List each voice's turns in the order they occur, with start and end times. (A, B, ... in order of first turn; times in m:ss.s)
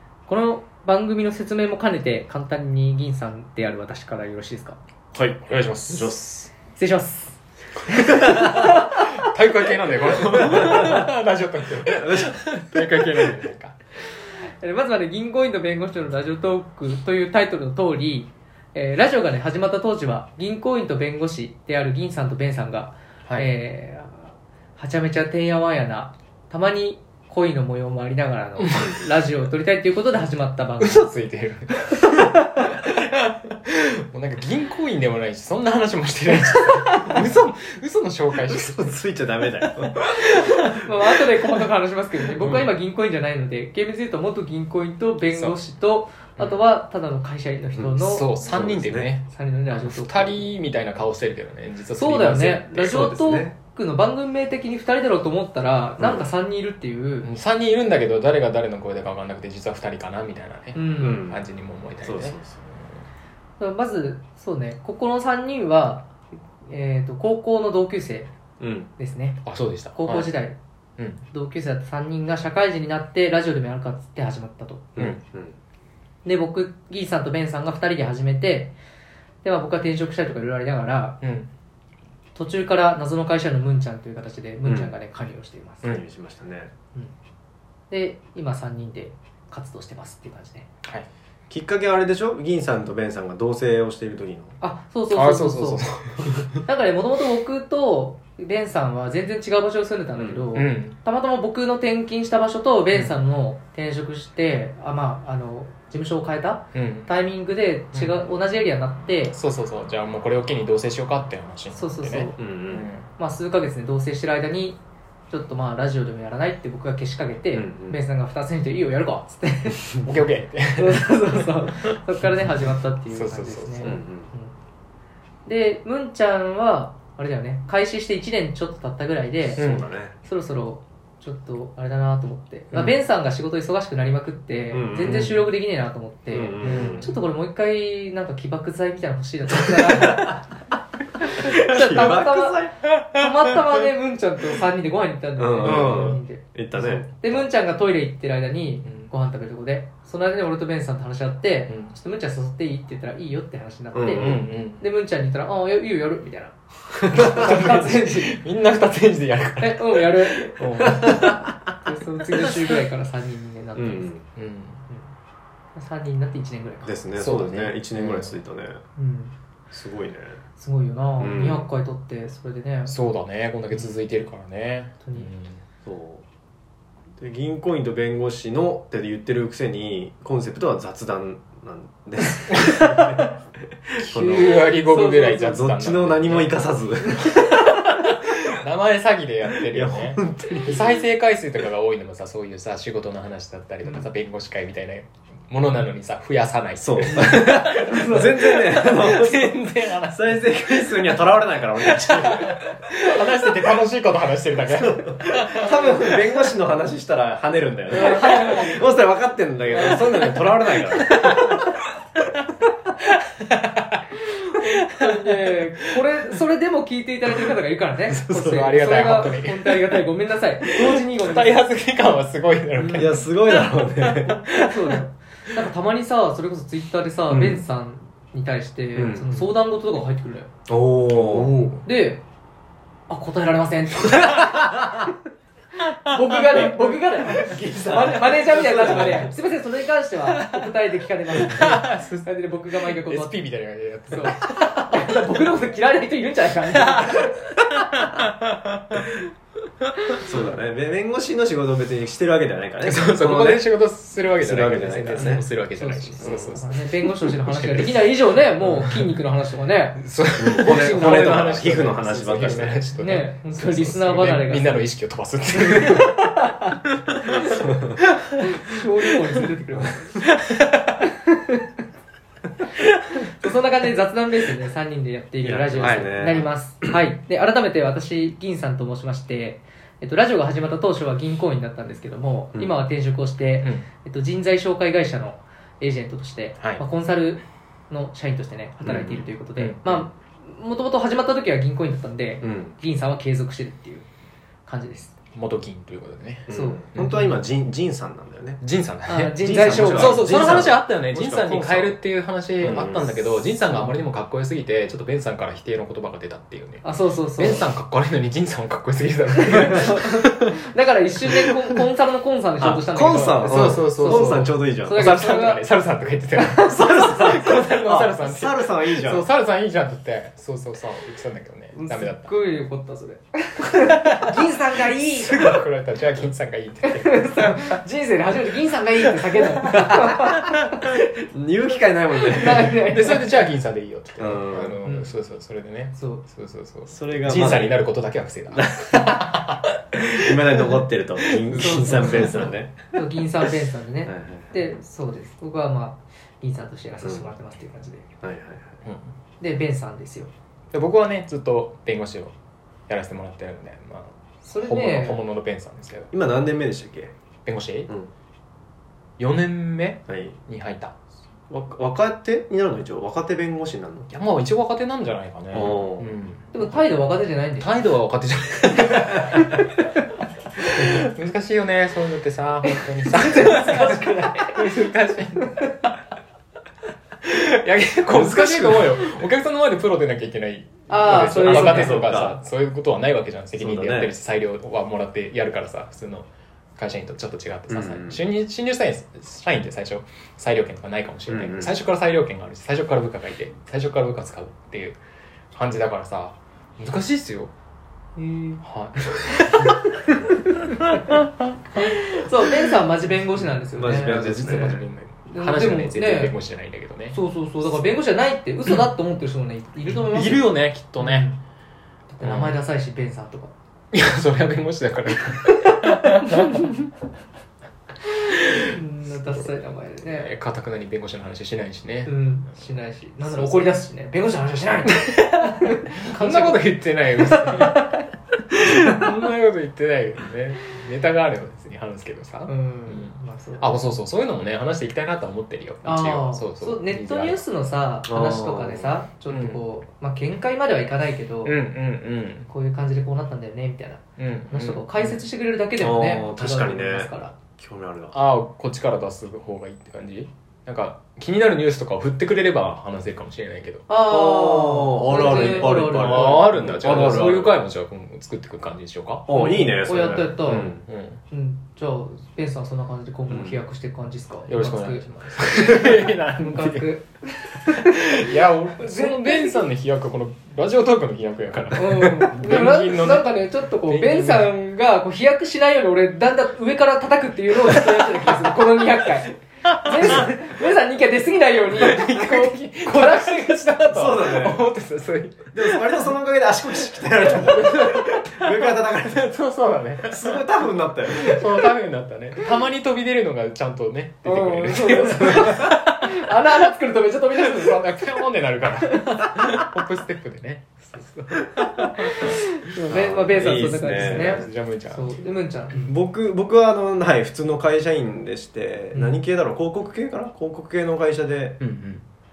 0:00.3-0:04.8 A
0:05.1-0:06.5 B
0:05.4-0:06.5 C
0:06.7-0:09.1 A
0:08.1-0:08.7 B
0:08.3-0:13.8 C
0:10.1-0:11.1 B
0:11.8-0:13.3 B
0:14.4-0:31.1 A
0:28.6-0:28.9 C
0:30.8-0:38.9 C
0:38.3-0:40.7 B
0:40.6-0:48.3 A
0:42.4-0:42.7 C
0:47.8-0:49.1 B
0:48.0-0:53.0 C
0:49.3-0:50.5 A
0:52.0-0:57.3 A
0:52.7-0:53.5 B
0:56.0-0:56.3 B
0:57.2-1:02.9 C
1:00.8-1:01.3 A
1:01.0-1:01.4 B
1:02.0-1:02.6 B
1:03.6-1:06.1 A
1:06.6-1:08.3 A
1:08.6-1:08.9 B
1:09.0-1:10.6 A
1:09.4-1:10.3 C
1:11.0-1:11.2 C
1:11.3-1:14.9 A
1:15.0-1:15.6 B
1:16.2-1:18.8 A
1:19.4-1:21.2 A
1:21.2-1:21.5 C
1:22.4-1:26.0 A
1:24.6-1:24.9 B
1:25.8-1:26.7 B
1:27.9-1:30.7 A
1:31.5-1:34.6 B
1:34.6-1:35.9 A
1:35.1-1:36.6 C
1:36.5-1:49.4 A
1:40.2-1:40.4 B
1:40.5-1:41.0 C
1:46.7-1:47.1 C
1:47.9-1:48.2 C
1:49.3-1:53.1 C
1:51.7-2:00.1 A
1:52.4-1:52.9 B
1:57.5-1:58.0 B
2:00.0-2:02.0 C
2:00.8-2:04.5 A
2:03.1-2:04.0 C
2:03.8-2:04.3 B
2:05.5-2:09.6 A
2:09.5-2:10.2 B
2:09.6-2:09.9 C
2:10.2-2:20.5 A
2:14.7-2:15.4 B
2:15.1-2:15.4 C
2:16.3-2:17.2 B
2:16.6-2:17.1 C
2:19.6-2:20.4 B
2:21.2-2:38.4 A
2:21.4-2:22.8 B
2:25.4-2:27.0 B
2:25.6-2:26.2 C
2:26.8-2:27.5 C
2:28.8-2:29.1 C
2:33.9-2:34.5 B
2:34.1-2:34.8 C
2:37.1-2:37.5 B
2:37.1-2:41.4 C
2:39.6-2:41.3 A
2:40.8-2:41.4 B
2:41.8-2:44.2 A
2:42.4-2:42.7 C
2:43.8-2:44.3 B
2:44.4-2:44.8 C
2:45.8-2:47.0 A
2:46.8-2:48.8 B
2:47.1-2:48.4 C
2:49.0-2:49.4 A
2:49.7-2:50.4 B
2:50.6-2:53.0 A
2:51.2-2:51.7 B
2:52.9-2:55.6 C
2:53.7-2:54.0 B
2:55.0-2:55.3 A
2:55.8-2:56.2 B
2:57.2-3:04.7 B
3:02.5-3:03.2 C
3:04.0-3:20.9 C
3:04.8-3:05.6 A
3:05.3-3:07.9 B
3:09.6-3:10.9 B
3:16.8-3:23.0 B
3:17.1-3:18.3 A
3:21.8-3:26.5 C
3:24.6-3:31.6 B
3:27.9-3:28.8 A
3:28.0-3:28.8 C
3:29.7-3:31.7 C
3:33.0-3:34.0 C
3:34.2-3:41.6 A
3:34.6-3:35.6 C
3:38.1-3:38.7 B
3:38.3-3:40.0 C
3:40.6-3:44.8 C
3:42.8-3:43.1 A
3:43.0-3:44.4 B
3:44.3-3:50.5 A
3:47.3-3:47.6 B
3:49.0-3:49.5 B
3:50.7-3:51.7 B
3:51.1-3:51.8 C
3:51.8-3:52.2 A
3:53.1-3:55.0 A
3:54.3-3:54.9 B
3:56.0-4:03.4 A
3:56.1-3:56.6 C
3:56.6-3:59.3 B
3:58.8-3:59.3 C
4:01.4-4:05.2 C
4:04.1-4:07.3 A
4:06.7-4:09.1 C
4:10.2-4:13.7 B
4:12.8-4:19.2 C
4:14.4-4:15.5 B
4:15.8-4:21.6 A
4:16.2-4:16.6 B
4:20.0-4:26.4 C
4:20.4-4:22.9 B
4:23.0-4:24.9 A
4:25.8-4:26.7 A
4:27.1-4:28.0 C
4:27.3-4:27.7 A
4:28.4-4:30.2 A
4:30.2-4:31.0 C
4:31.0-4:31.7 A
4:33.3-4:54.1 A
4:35.4-4:37.0 B
4:48.9-4:49.3 B
4:49.6-4:50.0 C
4:52.4-4:52.7 B
4:54.7-4:55.1 A
4:55.4-4:57.4 C
4:56.5-4:58.6 B
4:56.5-4:57.3 A
4:58.6-5:10.4 C
4:59.1-5:00.3 A
4:59.4-5:02.0 B
5:02.6-5:03.3 B
5:03.7-5:04.0 A
5:06.8-5:07.7 A
5:09.4-5:15.6 A
5:12.6-5:15.1 B
5:13.4-5:22.3 C
5:16.3-5:16.9 A
5:16.6-5:19.3 B
5:21.7-5:25.6 A
5:23.8-5:27.8 C
5:26.9-5:30.9 A
5:29.7-5:30.3 B
5:30.9-5:33.0 B
5:32.2-5:33.5 A
5:32.7-5:42.5 C
5:34.2-5:34.8 B
5:34.8-5:35.1 A
5:36.0-5:36.2 A
5:36.9-5:37.9 B
5:38.5-5:39.2 B
5:40.0-5:42.8 B
5:41.6-5:48.1 A
5:44.1-5:44.7 B
5:47.0-5:47.3 B
5:48.2-5:48.8 B
5:49.4-5:50.3 A
5:50.7-5:52.3 C
5:52.9-5:56.1 C
5:54.4-5:55.2 A
5:56.1-5:57.1 B
5:57.5-5:57.9 C
5:59.2-6:00.9 C
6:00.1-6:00.4 B
6:01.5-6:04.1 B
6:04.1-6:06.8 C
6:05.5-6:06.1 B
6:06.5-6:07.8 A
6:07.6-6:09.6 C
6:09.4-6:09.8 A
6:10.6-6:15.7 C
6:12.7-6:14.7 A
6:17.2-6:35.0 C
6:18.1-6:19.1 B
6:20.9-6:22.3 A
6:21.3-6:22.4 B
6:23.6-6:24.1 B
6:27.7-6:28.2 B
6:31.3-6:31.8 B
6:35.5-6:37.5 C
6:38.2-6:38.6 A
6:38.6-6:39.8 C
6:41.8-6:46.4 A
6:43.8-6:44.8 B
6:43.8-6:47.8 C
6:47.1-6:51.4 A
6:49.9-6:51.3 C
6:52.1-6:53.5 A
6:52.2-6:52.6 C
6:53.9-6:56.7 C
6:55.9-6:56.8 A
6:58.3-6:58.7 C
6:58.7-7:00.4 A
7:00.0-7:02.2 C
7:02.1-7:06.7 A
7:03.2-7:03.8 C
7:04.9-7:08.0 C
7:07.2-7:07.9 A
7:08.5-7:17.4 C
7:12.5-7:13.8 A
7:15.8-7:21.6 A
7:18.1-7:18.9 B
7:19.3-7:19.6 C
7:21.4-7:22.5 C
7:22.5-7:27.4 A
7:24.2-7:25.2 C
7:25.8-7:28.2 B
7:28.1-7:33.9 C
7:33.9-7:37.2 A
7:34.1-7:37.6 B
7:35.1-7:39.3 C
7:39.3-7:40.8 B
7:39.3-7:40.8 A
7:40.5-7:41.2 C
7:41.3-7:49.7 A
7:43.3-7:43.6 B
7:44.5-7:47.0 C
7:47.6-7:54.6 C
7:51.8-8:04.1 A
7:59.6-8:00.3 C
8:01.7-8:06.2 C
8:03.9-8:04.6 B
8:05.5-8:09.3 B
8:06.7-8:10.4 C
8:10.1-8:11.4 B
8:11.1-8:16.1 C
8:14.2-8:19.5 A
8:17.3-8:22.4 C
8:22.0-8:25.9 A
8:22.9-8:24.5 B
8:23.3-8:25.2 C
8:25.8-8:31.6 B
8:31.6-8:32.0 C